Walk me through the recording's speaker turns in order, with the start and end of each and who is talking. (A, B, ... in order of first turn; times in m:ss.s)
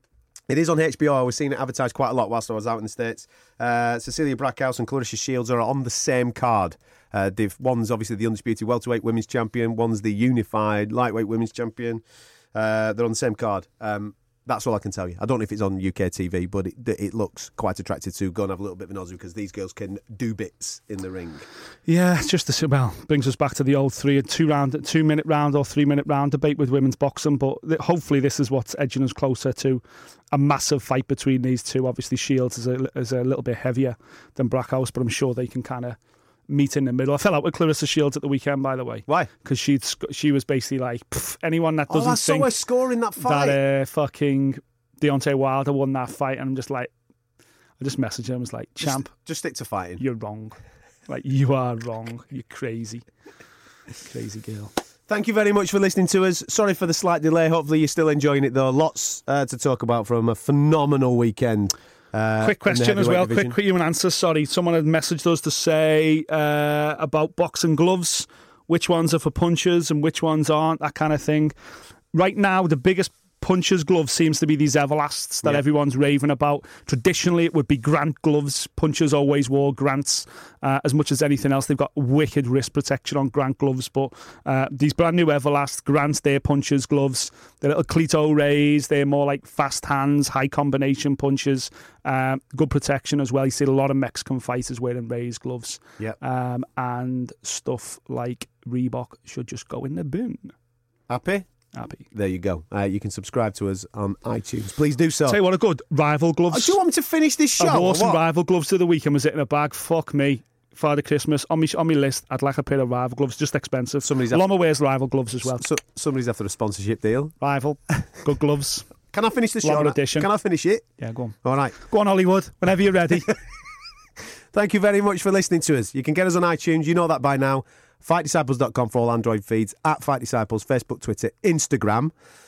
0:00.5-0:21.4 A
0:21.9-0:42.5 B
0:41.9-0:43.6 A
0:43.2-0:46.9 B
0:47.8-0:49.1 B
0:48.8-0:50.0 A
0:50.0-0:50.6 B
0:51.1-0:53.0 B
0:54.0-0:54.7 B
0:55.1-1:03.6 A
1:02.4-1:11.5 B
1:12.1-1:40.5 B
1:41.1-1:41.5 A
1:41.7-1:42.0 B
1:42.1-1:45.4 A
1:45.3-1:46.8 B
1:46.5-1:48.2 A
1:47.6-1:55.7 B
1:54.0-1:54.4 A
1:55.4-1:57.4 A
1:57.4-1:58.9 B
1:59.1-2:00.9 A
1:59.6-2:00.3 B
2:01.0-2:03.4 B
2:01.4-2:01.7 A
2:04.5-2:12.1 A